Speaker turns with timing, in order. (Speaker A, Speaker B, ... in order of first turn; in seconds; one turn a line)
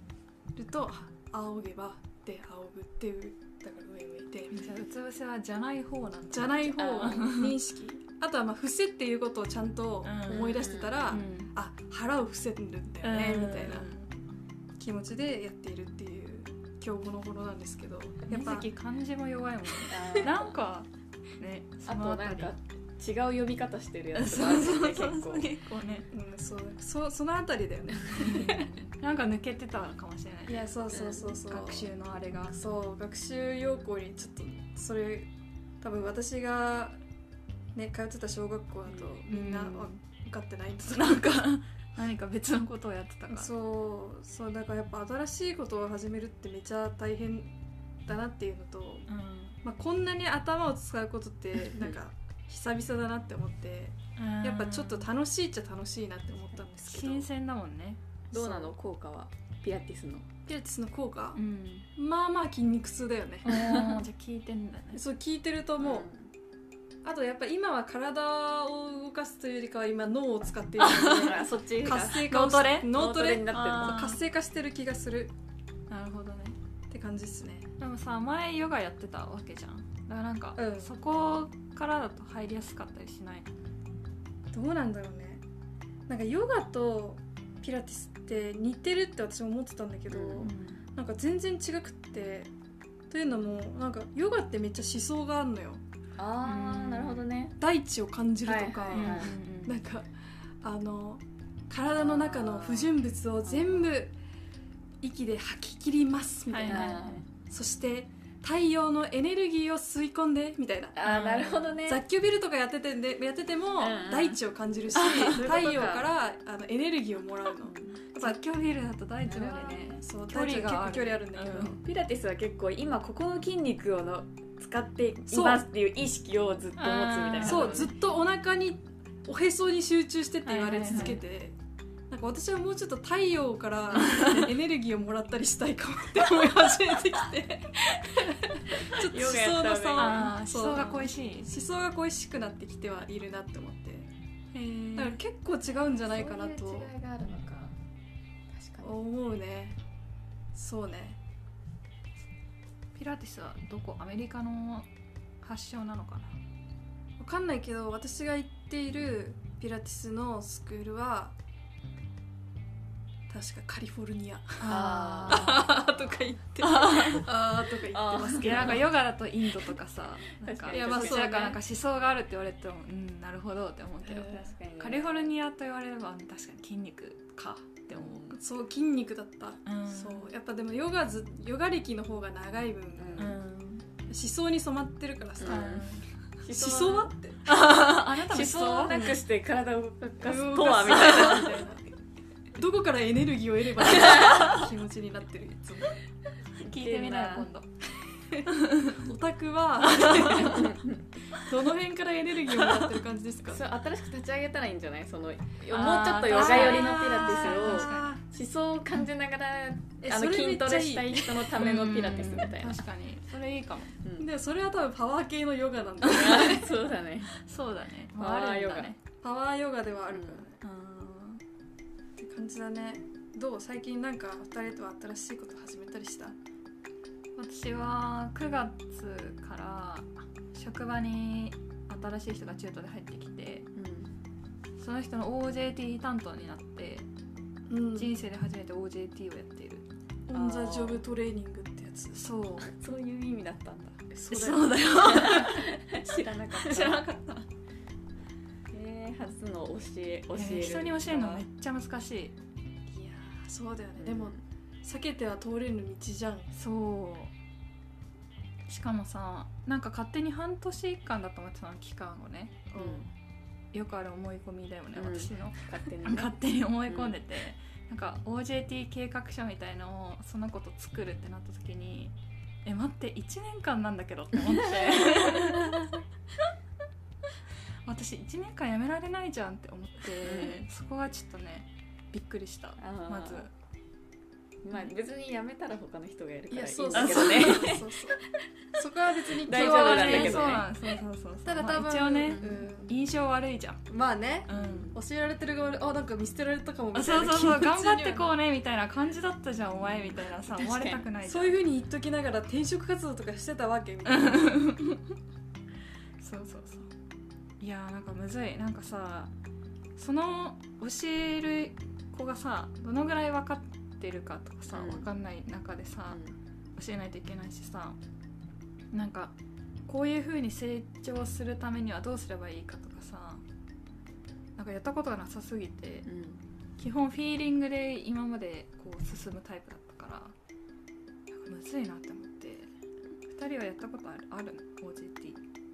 Speaker A: 0.5-4.7
Speaker B: 4.5-7.5
Speaker A: 6.3-13.9
Speaker C: 6.8-7.2
Speaker B: 10.0-11.5
Speaker C: 10.3-11.2
Speaker B: 13.0-14.1
Speaker A: 14.8-18.6
Speaker B: 18.3-20.9
Speaker C: 19.9-20.5
Speaker A: 20.0-20.3
Speaker B: 21.4-22.5
Speaker C: 21.9-25.5
Speaker B: 24.1-26.1
Speaker A: 26.1-28.6
Speaker B: 28.1-30.7
Speaker A: 30.5-31.9
Speaker C: 30.9-31.4
Speaker B: 31.4-32.5
Speaker A: 32.5-35.3
Speaker A: 35.8-37.0
Speaker A: 37.7-41.4
Speaker B: 39.2-39.9
Speaker B: 40.9-43.5
Speaker A: 43.3-47.5
Speaker A: 48.0-49.1
Speaker B: 49.1-49.6
Speaker A: 49.6-57.3
Speaker B: 54.2-55.1
Speaker B: 56.8-58.0
Speaker A: 58.3-58.7
Speaker C: 58.3-60.3
Speaker A: 60.5-61.4
Speaker B: 61.3-61.9
Speaker A: 62.0-63.5
Speaker B: 63.4-65.0
Speaker C: 63.5-64.0
Speaker A: 64.9-66.1
Speaker C: 65.8-66.3
Speaker A: 67.0-75.3
Speaker B: 70.8-71.3
Speaker C: 71.1-72.3
Speaker B: 71.9-72.9
Speaker C: 72.9-74.0
Speaker B: 73.5-74.2
Speaker B: 75.9-76.5
Speaker A: 76.9-77.7
Speaker B: 77.8-83.5
Speaker A: 80.6-80.9
Speaker A: 84.5-85.4
Speaker A: 86.1-92.5
Speaker C: 90.1-90.5
Speaker B: 90.4-90.8
Speaker A: 93.1-95.8
Speaker C: 96.2-97.6
Speaker B: 96.4-97.2
Speaker A: 97.6-100.1
Speaker C: 98.4-99.3
Speaker B: 98.9-99.8
Speaker A: 100.6-104.1
Speaker C: 102.0-103.9
Speaker A: 105.0-111.0
Speaker B: 106.5-107.0
Speaker C: 106.7-107.2
Speaker C: 110.9-112.0
Speaker B: 111.0-111.8
Speaker A: 111.8-118.4
Speaker C: 113.8-114.4
Speaker C: 114.9-116.0
Speaker C: 117.6-118.0
Speaker B: 118.2-121.7
Speaker C: 119.2-120.0
Speaker A: 120.0-121.8
Speaker C: 121.7-127.9
Speaker A: 125.3-125.6
Speaker B: 126.8-127.9
Speaker A: 127.4-131.5
Speaker B: 130.4-131.2
Speaker C: 130.8-131.2
Speaker A: 132.1-144.1
Speaker B: 133.9-134.4
Speaker C: 138.8-140.2
Speaker B: 140.0-141.5
Speaker B: 144.5-145.2
Speaker A: 144.9-146.9
Speaker C: 145.9-147.8
Speaker C: 148.5-148.9
Speaker A: 148.8-149.8
Speaker A: 150.5-151.2
Speaker B: 152.9-154.9
Speaker B: 155.4-156.4
Speaker A: 157.2-161.3
Speaker A: 163.3-168.9
Speaker B: 164.6-165.7
Speaker C: 164.7-166.2
Speaker B: 166.6-167.2
Speaker C: 167.9-168.8
Speaker B: 168.4-178.2
Speaker C: 170.4-171.5
Speaker A: 170.7-171.6
Speaker C: 174.0-175.3
Speaker C: 177.9-178.4
Speaker A: 178.3-183.3
Speaker B: 179.7-180.3
Speaker C: 182.9-183.4
Speaker B: 183.2-183.8
Speaker A: 184.1-185.7
Speaker C: 185.4-185.9
Speaker B: 185.4-186.0
Speaker A: 186.4-187.4
Speaker C: 186.4-191.8
Speaker B: 187.4-189.0
Speaker A: 188.8-189.2
Speaker A: 190.2-191.8
Speaker A: 192.6-196.0
Speaker C: 193.8-194.6
Speaker B: 196.6-197.7
Speaker C: 196.6-197.5
Speaker A: 198.3-200.8
Speaker B: 198.5-199.0
Speaker B: 199.9-200.7
Speaker C: 200.4-201.1
Speaker A: 201.3-203.6
Speaker C: 203.5-212.8
Speaker B: 205.7-208.2
Speaker A: 206.3-208.2
Speaker A: 210.0-211.6
Speaker B: 211.6-214.0
Speaker C: 214.0-214.3
Speaker A: 214.2-216.7
Speaker B: 216.0-216.4
Speaker C: 216.1-217.3
Speaker B: 217.3-219.0
Speaker C: 218.1-218.9
Speaker A: 219.2-220.6
Speaker C: 220.1-220.4
Speaker B: 220.6-221.4
Speaker A: 222.2-226.3
Speaker B: 227.4-233.7
Speaker C: 233.7-234.1
Speaker B: 234.8-237.1
Speaker A: 237.7-238.1
Speaker B: 237.9-239.8
Speaker A: 240.3-242.2
Speaker C: 240.3-241.0
Speaker B: 242.1-242.7
Speaker C: 242.7-247.1
Speaker A: 244.2-244.7
Speaker B: 244.3-245.7
Speaker B: 246.5-247.4
Speaker C: 248.7-251.4
Speaker B: 250.3-252.3
Speaker A: 252.9-256.5
Speaker C: 254.0-254.3
Speaker B: 256.5-257.3
Speaker B: 258.7-262.7
Speaker A: 262.7-263.0
Speaker C: 262.7-263.1
Speaker B: 263.7-275.9
Speaker C: 264.9-266.3
Speaker C: 266.9-267.2
Speaker C: 274.8-275.8
Speaker B: 277.9-283.5
Speaker C: 280.2-280.6
Speaker C: 282.8-283.5
Speaker C: 284.6-287.9
Speaker A: 286.5-288.2
Speaker B: 286.9-287.6
Speaker A: 288.7-290.7
Speaker C: 289.3-290.7
Speaker B: 289.5-293.8
Speaker A: 291.4-292.9
Speaker C: 292.3-292.7
Speaker A: 293.9-298.3
Speaker B: 294.5-294.9
Speaker C: 294.5-295.0
Speaker B: 296.9-301.6
Speaker C: 299.8-301.1
Speaker A: 301.2-304.7
Speaker B: 304.1-305.0
Speaker B: 306.2-306.9
Speaker B: 307.6-309.3
Speaker B: 310.0-316.2
Speaker C: 314.7-315.1
Speaker C: 316.1-316.4
Speaker B: 316.8-318.0
Speaker B: 318.9-319.3
Speaker B: 319.9-323.4
Speaker B: 324.6-326.1
Speaker C: 326.1-326.4
Speaker B: 326.8-330.3
Speaker B: 331.3-332.7
Speaker B: 333.3-335.4